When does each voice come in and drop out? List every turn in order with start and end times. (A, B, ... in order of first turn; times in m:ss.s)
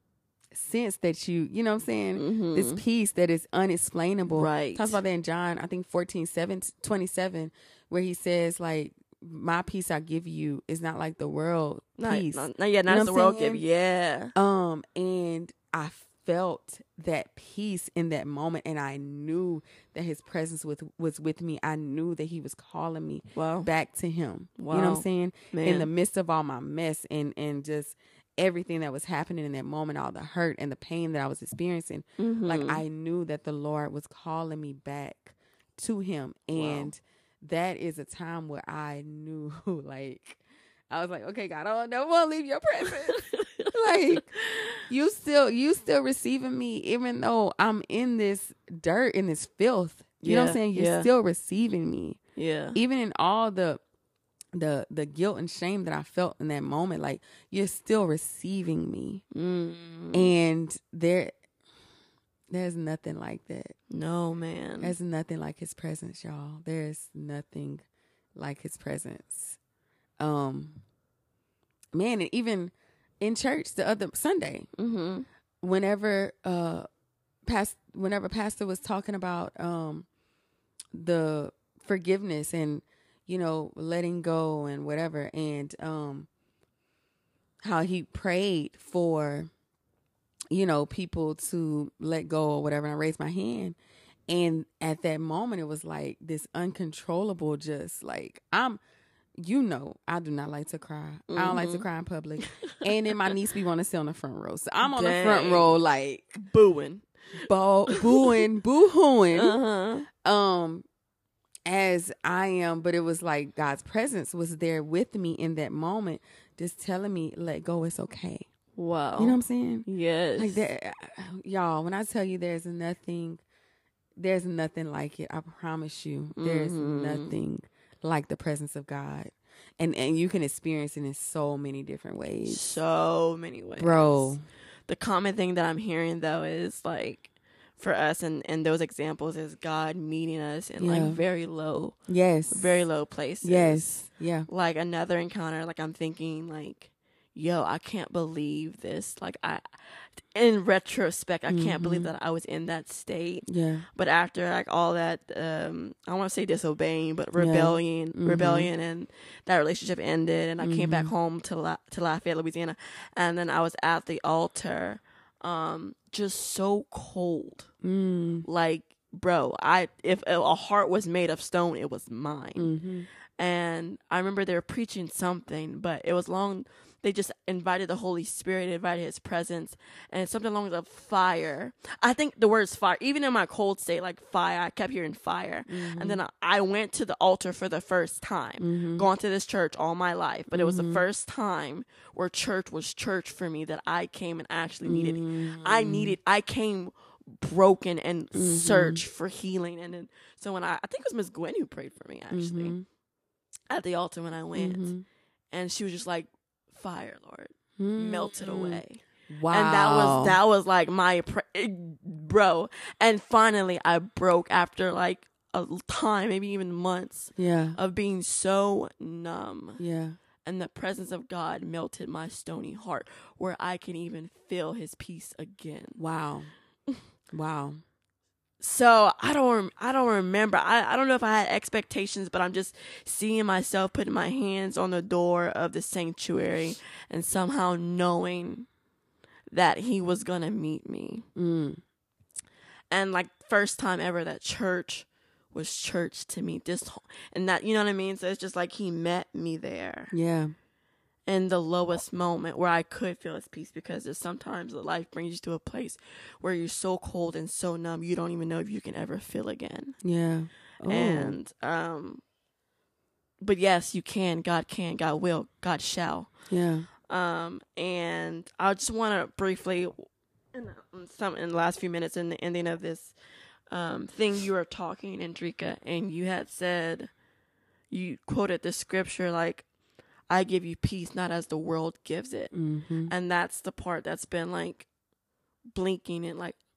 0:00.5-0:13.6 A
0:02.2-0:02.8 B
0:04.3-0:05.0 B
0:12.0-0:14.3 B
0:14.4-0:52.2 A
0:23.4-0:23.7 B
0:24.6-0:25.9 B
0:32.2-0:32.8 B
0:36.5-0:36.9 B
0:42.9-0:44.9 B
0:50.2-0:51.1 B
0:52.4-0:52.8 B
0:52.8-0:53.8 A
0:54.5-0:59.2 A
0:59.3-1:00.3 B
1:00.1-1:01.3 A
1:02.5-1:03.8 A
1:03.9-1:05.0 B
1:04.8-1:09.6 A
1:10.2-1:10.8 A
1:11.9-1:14.7 A
1:14.8-1:15.3 B
1:15.6-1:16.9 A
1:17.5-1:20.1 A
1:21.0-1:26.3 A
1:27.6-1:29.5 A
1:30.5-1:33.8 A
1:34.3-1:38.8 A
1:39.4-1:46.4 A
1:41.3-1:41.9 B
1:42.4-1:43.3 B
1:44.8-1:45.8 B
1:46.4-1:47.1 B
1:47.4-1:49.6 A
1:47.9-1:48.4 B
1:49.3-1:50.1 B
1:50.1-1:50.8 A
1:51.7-1:58.5 A
1:58.8-2:00.6 B
1:59.2-1:59.9 A
2:00.4-2:03.4 A
2:04.2-2:12.7 A
2:06.4-2:07.4 B
2:12.5-2:14.4 B
2:13.8-2:14.4 A
2:14.9-2:22.0 B
2:20.8-2:21.2 A
2:22.1-2:22.8 A
2:22.5-2:47.7 B
2:23.4-2:24.5 A
2:31.5-2:32.1 A
2:33.5-2:33.9 A
2:37.4-2:38.7 A
2:40.6-2:41.1 A
2:47.8-2:48.5 A
2:48.4-2:52.7 B
2:52.6-2:53.1 A
2:53.4-3:22.8 B
3:05.7-3:06.2 A
3:08.6-3:09.1 A
3:10.5-3:11.0 A
3:14.8-3:16.2 A
3:18.3-3:19.0 A
3:22.3-3:22.8 A
3:23.7-3:24.9 B
3:24.6-3:25.0 A
3:25.5-3:39.8 B
3:27.8-3:30.4 A
3:37.4-3:37.8 A
3:39.8-3:40.2 A
3:40.4-3:46.0 B
3:46.0-3:46.5 A
3:47.3-3:47.8 A
3:48.6-3:58.7 B
3:59.5-4:01.2 B
4:01.4-4:01.8 A
4:02.9-4:10.2 B
4:10.1-4:10.6 A
4:11.3-4:20.0 B
4:20.0-4:21.4 A
4:20.9-4:22.2 B
4:23.4-4:26.3 B
4:26.5-4:26.9 A
4:27.1-4:33.1 B
4:33.7-4:37.1 B
4:37.9-4:39.6 B
4:40.3-4:42.5 B
4:42.5-4:43.1 A
4:43.1-4:44.9 B
4:45.8-4:46.6 B